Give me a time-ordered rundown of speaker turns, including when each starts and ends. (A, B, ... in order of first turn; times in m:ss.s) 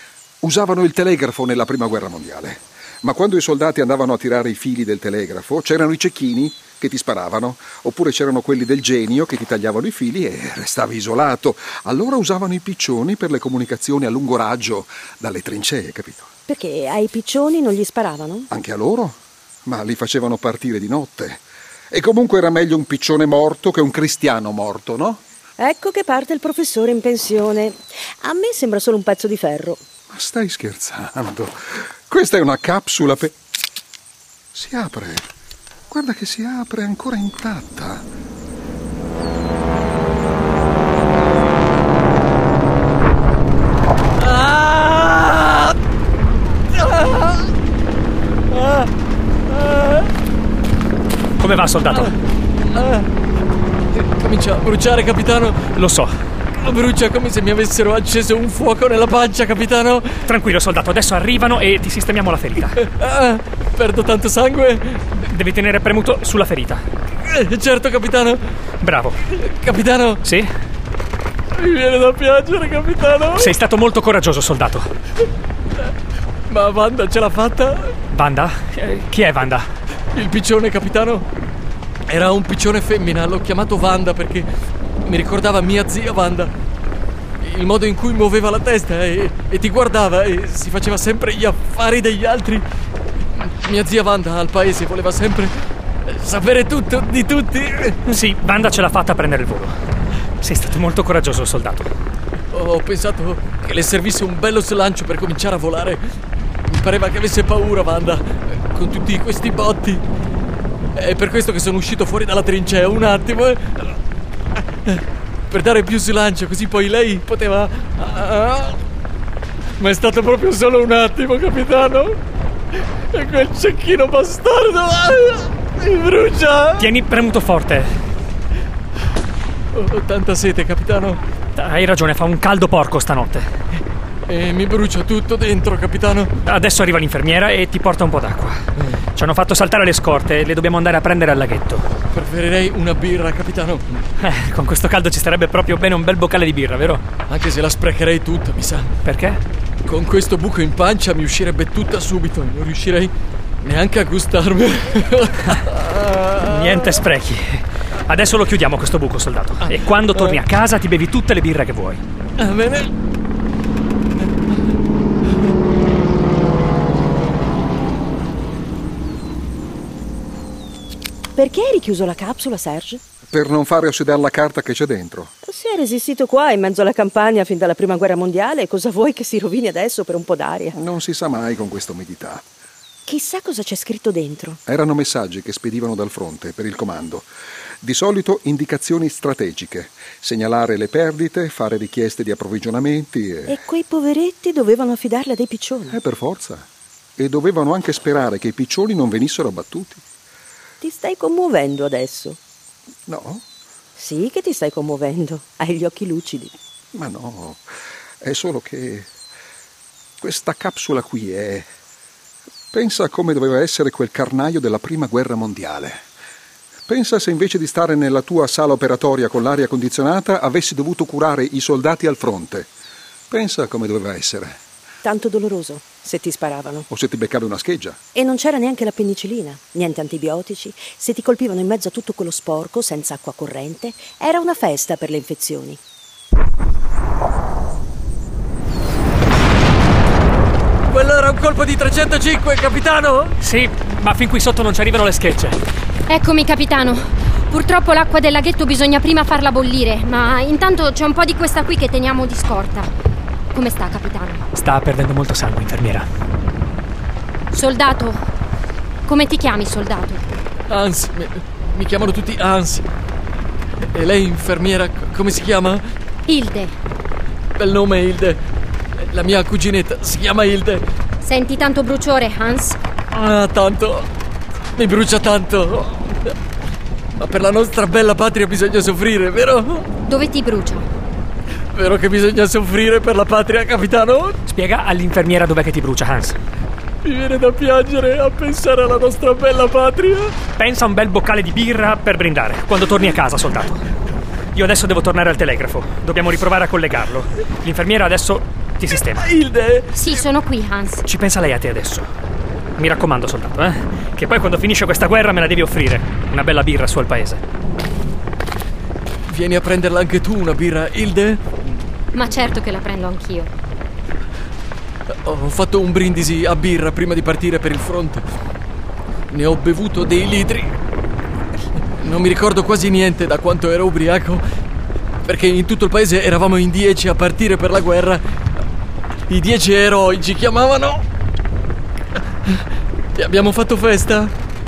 0:00.4-0:16.3 A
0:16.5-0:18.5 B
0:18.5-0:25.2 A
0:25.6-0:29.8 B
0:30.1-0:33.4 A
0:34.5-0:35.3 A
0:35.9-0:38.1 A
0:44.2-0:45.8 C
0:46.7-0:47.5 C
0:48.5-0:48.9 C
0:49.5-0:50.1 C
0:51.4-0:52.2 D
0:52.7-0:53.1 C
0:53.9-0:55.7 C
0:55.7-0:56.1 D
0:56.6-1:00.3 C
1:00.2-1:02.8 D
1:02.7-1:05.1 C
1:05.2-1:06.8 D
1:07.2-1:08.4 C
1:08.8-1:09.2 D
1:09.3-1:10.2 C
1:10.2-1:10.5 D
1:11.5-1:13.5 C
1:13.4-1:14.9 D
1:16.5-1:17.9 C
1:18.1-1:19.7 D
1:20.1-1:21.2 C
1:22.1-1:24.5 C
1:25.0-1:26.5 C
1:27.4-1:32.6 C
1:33.3-1:38.0 C
1:38.0-1:39.7 D
1:40.4-1:41.9 D
1:42.5-1:46.0 C
1:46.7-1:50.0 C
1:50.9-1:54.0 C
1:54.8-1:58.8 C
1:59.8-2:02.2 C
2:03.1-2:06.9 C
2:06.8-2:07.9 D
2:09.7-2:11.2 C
2:11.6-2:13.5 D
2:14.3-2:16.3 C
2:16.4-2:21.8 D
2:22.1-2:24.0 C
2:24.2-2:27.0 D
2:27.3-2:28.9 C
2:29.0-2:29.4 D
2:29.8-2:37.0 C
2:36.4-2:42.0 D
2:39.6-2:40.4 C
2:42.4-2:42.9 C
2:51.4-2:53.0 B
2:53.3-2:55.3 A
2:55.4-3:00.8 B
3:00.7-3:02.4 A
3:03.1-3:04.6 B
3:04.6-3:07.3 A
3:07.8-3:13.6 A
3:13.5-3:16.0 B
3:15.9-3:20.0 A
3:20.8-3:22.4 B
3:23.1-3:23.4 A
3:24.0-3:26.5 B
3:26.9-3:27.7 A
3:28.2-3:29.1 A
3:30.2-3:31.7 A
3:32.7-3:36.0 A
3:36.9-3:42.7 A
3:43.3-3:44.6 A
3:45.0-3:46.9 B
3:46.9-3:48.0 A
3:48.1-3:55.8 B
4:00.9-4:03.4 C
4:03.4-4:05.6 D
4:06.1-4:12.9 E
4:13.5-4:14.4 E
4:14.5-4:16.1 D
4:17.5-4:18.2 E
4:19.0-4:20.2 E
4:20.7-4:22.8 C
4:23.9-4:25.8 C
4:26.3-4:26.7 E
4:27.6-4:28.4 C
4:29.0-4:30.8 C
4:31.2-4:32.8 E
4:33.1-4:34.1 C
4:34.8-4:36.3 C
4:37.2-4:39.9 C
4:40.0-4:40.9 E
4:41.7-4:44.4 C
4:44.4-4:46.4 D
4:47.0-4:50.4 C
4:50.5-4:53.8 D
4:54.5-4:59.3 D
4:59.0-5:00.2 C
4:59.9-5:01.0 E
5:01.0-5:02.1 D
5:02.8-5:07.4 D
5:09.3-5:11.4 C
5:12.1-5:13.5 E
5:15.1-5:18.2 C
5:19.3-5:20.7 C
5:22.0-5:24.4 C
5:25.2-5:28.2 C
5:29.3-5:31.0 C
5:33.1-5:34.3 C